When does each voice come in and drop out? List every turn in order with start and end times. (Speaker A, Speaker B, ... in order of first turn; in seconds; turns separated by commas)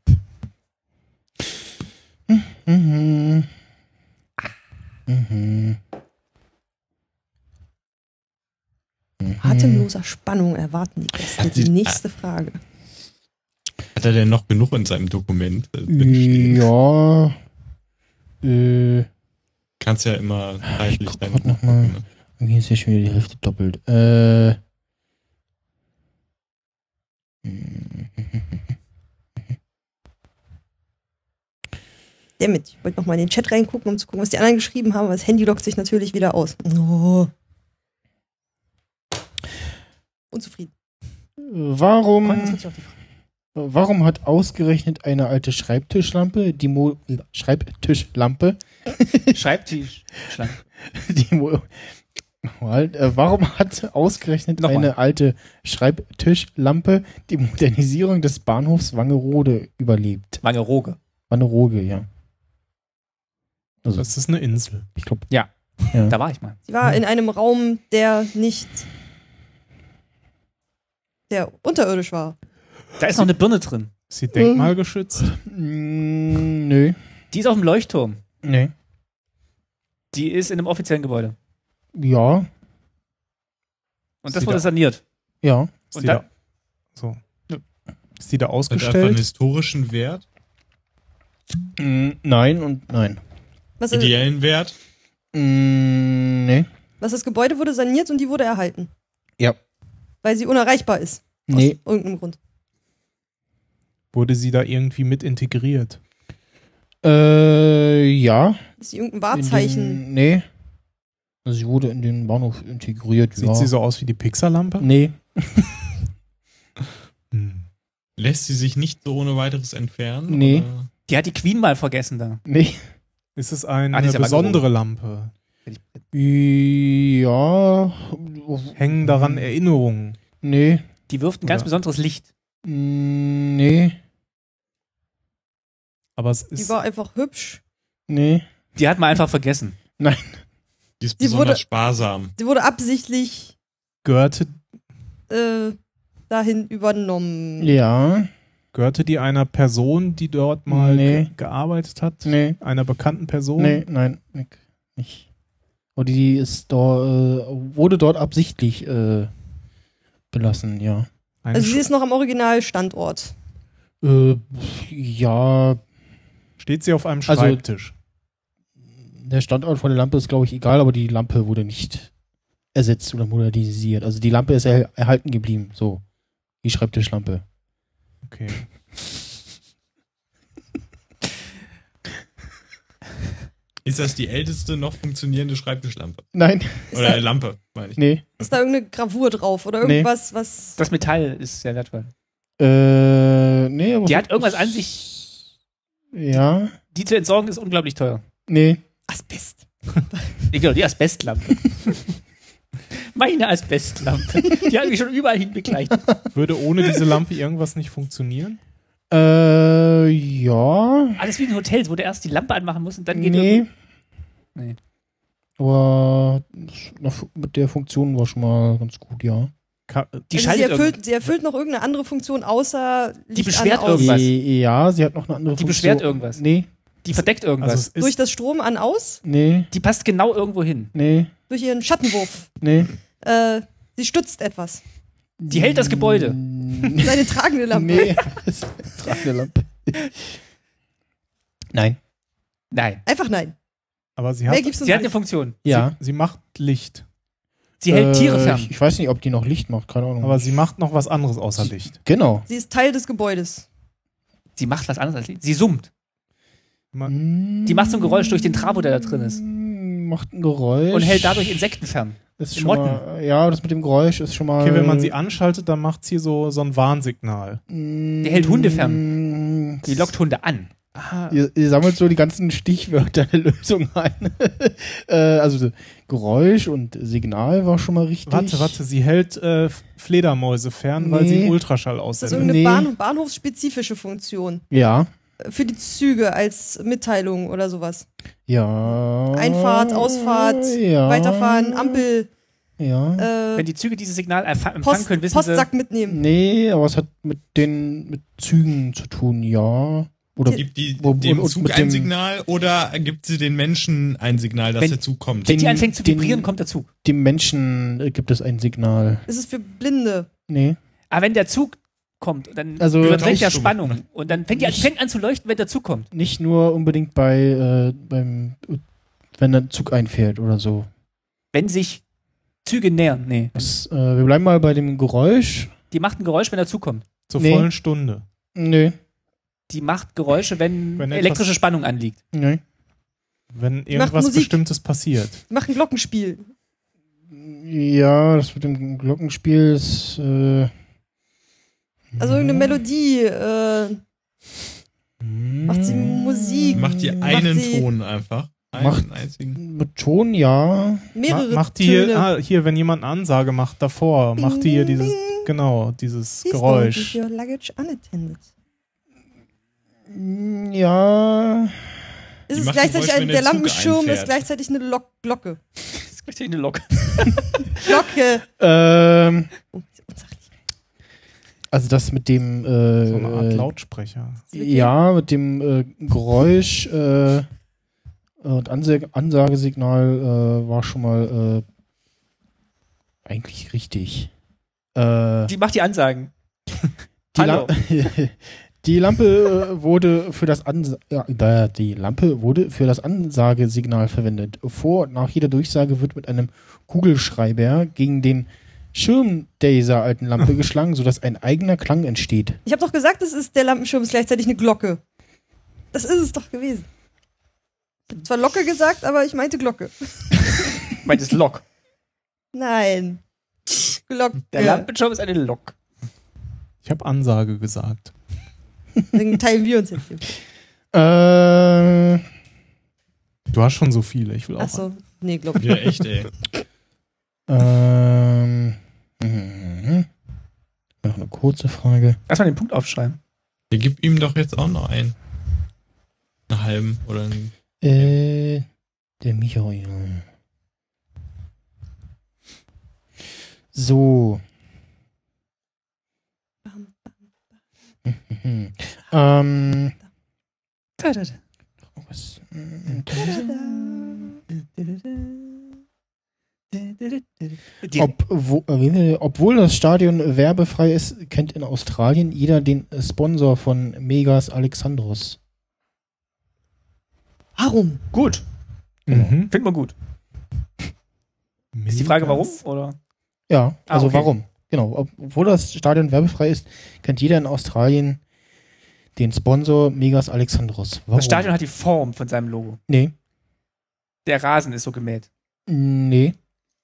Speaker A: 2.3-3.5, Speaker A: 5.1-5.8, Speaker A: 9.2-9.9, Speaker B: 9.4-12.6, Speaker C: 11.4-12.0, Speaker C: 13.9-16.7, Speaker A: 15.9-17.4, Speaker A: 18.4-19.1, Speaker C: 19.8-22.0, Speaker A: 20.7-24.6, Speaker A: 27.4-28.6, Speaker B: 32.4-37.3, Speaker B: 40.3-40.7, Speaker A: 41.4-42.6, Speaker D: 42.2-42.9, Speaker A: 43.5-49.4, Speaker D: 49.3-50.6, Speaker A: 50.9-51.8, Speaker A: 52.4-60.4, Speaker D: 54.6-54.9, Speaker D: 60.4-61.0, Speaker A: 61.3-62.1, Speaker A: 63.9-64.1, Speaker E: 64.0-64.9, Speaker A: 65.0-65.2, Speaker D: 66.1-66.6, Speaker B: 66.7-68.9, Speaker B: 71.3-72.4, Speaker D: 73.0-73.9, Speaker E: 74.1-75.3, Speaker A: 74.3-77.0, Speaker D: 77.3-78.2, Speaker A: 78.4-78.7, Speaker D: 80.1-81.3, Speaker A: 82.0-82.5, Speaker D: 84.2-85.0, Speaker E: 84.3-84.7, Speaker A: 85.4-85.8, Speaker D: 85.9-86.2, Speaker E: 86.0-86.2, Speaker E: 88.2-89.2, Speaker C: 88.7-90.2, Speaker A: 91.8-93.2, Speaker B: 93.8-94.2, Speaker C: 93.9-94.8, Speaker A: 95.3-96.7, Speaker B: 97.0-98.9, Speaker B: 100.2-102.4, Speaker A: 101.5-101.8, Speaker E: 104.1-106.0, Speaker A: 107.0-108.6, Speaker B: 108.8-110.0, Speaker A: 109.3-110.5, Speaker A: 111.5-113.7, Speaker E: 113.4-114.9, Speaker A: 114.8-115.8, Speaker E: 117.3-117.7, Speaker C: 118.2-120.9, Speaker A: 120.3-120.7, Speaker D: 121.1-122.4, Speaker A: 122.5-122.8, Speaker E: 123.4-125.3, Speaker D: 123.9-124.7, Speaker D: 125.7-126.0, Speaker A: 126.1-129.5, Speaker E: 128.8-130.2, Speaker A: 130.4-130.8, Speaker D: 131.1-132.3, Speaker A: 132.7-134.0, Speaker E: 136.2-136.8, Speaker B: 136.6-137.6, Speaker A: 138.1-138.4, Speaker D: 138.8-139.8, Speaker A: 140.0-140.4, Speaker C: 141.0-142.3, Speaker B: 141.2-141.6, Speaker B: 142.4-143.5, Speaker E: 144.0-144.6, Speaker B: 145.3-145.8, Speaker B: 146.3-147.8, Speaker A: 147.6-148.3, Speaker E: 148.7-153.8, Speaker A: 150.7-151.3, Speaker A: 152.2-152.6, Speaker A: 153.6-155.3, Speaker A: 156.0-159.3, Speaker A: 160.3-161.1, Speaker E: 161.4-161.8, Speaker B: 161.5-163.3, Speaker A: 164.0-165.8, Speaker E: 166.6-167.9, Speaker A: 167.3-167.6, Speaker A: 169.0-172.1, Speaker A: 172.7-176.0, Speaker A: 176.6-177.4, Speaker E: 178.3-178.6, Speaker C: 183.8-186.2, Speaker A: 186.3-187.2, Speaker C: 186.9-188.0, Speaker A: 188.0-188.3, Speaker B: 188.4-190.8, Speaker A: 189.8-190.1, Speaker D: 190.8-192.1, Speaker A: 192.6-195.3, Speaker D: 194.1-195.1, Speaker A: 196.1-196.7, Speaker D: 196.9-198.2, Speaker A: 198.5-198.8, Speaker B: 199.1-200.4, Speaker D: 200.5-201.6, Speaker D: 202.9-206.0, Speaker E: 206.3-208.6, Speaker A: 209.1-211.2, Speaker D: 211.2-213.7, Speaker A: 213.1-213.7, Speaker A: 215.6-219.5, Speaker E: 219.9-220.3, Speaker D: 220.3-221.0, Speaker B: 220.3-224.1, Speaker D: 223.3-224.3, Speaker A: 223.9-226.7, Speaker D: 225.6-226.4, Speaker D: 227.0-227.9, Speaker E: 227.6-228.2, Speaker B: 228.0-229.2, Speaker A: 229.2-229.7, Speaker D: 229.7-230.9, Speaker A: 230.9-231.3, Speaker B: 231.5-232.5, Speaker A: 232.6-232.9, Speaker B: 233.2-234.8, Speaker A: 235.4-240.0, Speaker D: 235.5-236.4, Speaker B: 237.0-238.3, Speaker A: 241.7-242.0, Speaker D: 242.7-243.0, Speaker B: 243.1-243.6, Speaker E: 244.2-244.8, Speaker B: 244.5-245.1, Speaker D: 244.8-245.6, Speaker A: 245.7-246.0, Speaker E: 245.7-247.0, Speaker D: 247.8-248.7, Speaker A: 247.9-250.5, Speaker E: 250.2-252.0, Speaker A: 251.6-252.5, Speaker B: 252.5-253.7, Speaker D: 254.6-255.9, Speaker A: 257.1-261.6, Speaker D: 257.7-259.4, Speaker D: 260.9-263.0, Speaker A: 262.4-265.1, Speaker E: 264.6-267.6, Speaker A: 267.7-270.1, Speaker D: 268.2-269.1, Speaker D: 269.9-270.7, Speaker E: 271.0-271.4, Speaker A: 271.3-278.8, Speaker E: 278.3-282.6, Speaker A: 281.0-281.6, Speaker B: 282.2-284.6, Speaker A: 282.3-282.9, Speaker A: 284.7-285.1, Speaker B: 285.4-288.1, Speaker A: 288.5-292.1, Speaker B: 289.3-292.3, Speaker A: 292.8-293.3, Speaker B: 293.2-293.7, Speaker D: 293.6-295.7, Speaker B: 294.8-296.2, Speaker A: 296.1-302.1, Speaker C: 300.5-305.6, Speaker D: 304.8-306.9, Speaker A: 305.4-306.5, Speaker A: 307.0-309.2, Speaker B: 309.3-310.3, Speaker A: 310.5-310.8, Speaker D: 311.1-316.1, Speaker A: 312.8-313.7, Speaker C: 313.0-314.0, Speaker A: 314.5-314.9, Speaker A: 316.1-318.8, Speaker A: 319.4-320.9, Speaker D: 321.5-322.0, Speaker D: 322.6-323.6, Speaker A: 323.6-325.7, Speaker D: 325.9-327.0, Speaker E: 327.3-328.2, Speaker A: 327.4-327.7, Speaker A: 328.6-329.0, Speaker D: 329.7-332.2, Speaker E: 331.0-331.6, Speaker A: 332.3-332.6, Speaker E: 333.5-335.4, Speaker B: 333.9-334.6, Speaker B: 335.5-336.5, Speaker A: 337.3-340.7, Speaker A: 342.1-342.8, Speaker B: 342.2-344.0, Speaker A: 345.2-347.5, Speaker B: 345.7-347.9, Speaker C: 346.7-349.6, Speaker A: 348.7-351.1, Speaker B: 351.1-352.3, Speaker E: 351.3-357.2, Speaker B: 354.4-355.5, Speaker B: 356.5-358.4, Speaker A: 360.1-362.0, Speaker B: 362.5-365.6, Speaker C: 362.5-364.4, Speaker D: 366.0-367.4, Speaker B: 367.8-368.4, Speaker A: 368.6-369.5, Speaker B: 369.7-370.4, Speaker A: 371.7-373.7, Speaker E: 373.1-374.5, Speaker B: 374.5-374.9, Speaker A: 374.5-377.5, Speaker A: 378.4-381.6, Speaker A: 383.2-384.3, Speaker A: 384.9-385.5, Speaker D: 385.5-386.3, Speaker A: 387.3-402.6, Speaker D: 387.4-387.7, Speaker B: 402.7-405.0, Speaker B: 405.9-406.9, Speaker B: 408.1-410.5, Speaker D: 411.0-411.6, Speaker B: 412.5-413.2, Speaker B: 414.1-414.9, Speaker D: 414.5-415.8, Speaker E: 416.8-418.1, Speaker B: 419.1-420.2, Speaker A: 420.9-422.2, Speaker E: 423.5-424.9, Speaker B: 424.6-425.9, Speaker C: 425.6-426.3, Speaker A: 427.5-430.1, Speaker A: 431.0-432.2, Speaker D: 432.3-433.2, Speaker C: 433.7-435.1, Speaker C: 436.5-438.1, Speaker A: 437.8-438.6, Speaker A: 439.2-440.2, Speaker A: 443.7-444.4, Speaker B: 446.7-447.1, Speaker A: 448.1-450.0, Speaker D: 451.0-451.4, Speaker A: 452.0-453.5, Speaker D: 453.1-454.1, Speaker B: 453.2-454.2, Speaker D: 454.8-455.6, Speaker D: 456.7-458.1, Speaker A: 458.0-465.4, Speaker B: 467.6-468.0, Speaker D: 468.1-468.4, Speaker E: 469.1-469.5, Speaker A: 469.1-469.3, Speaker D: 469.5-469.9, Speaker E: 471.8-472.5, Speaker D: 471.9-473.0, Speaker A: 473.5-478.2, Speaker D: 473.9-474.3, Speaker A: 479.2-481.5, Speaker D: 481.1-482.8, Speaker A: 482.9-483.1, Speaker D: 484.3-485.3, Speaker A: 485.7-486.4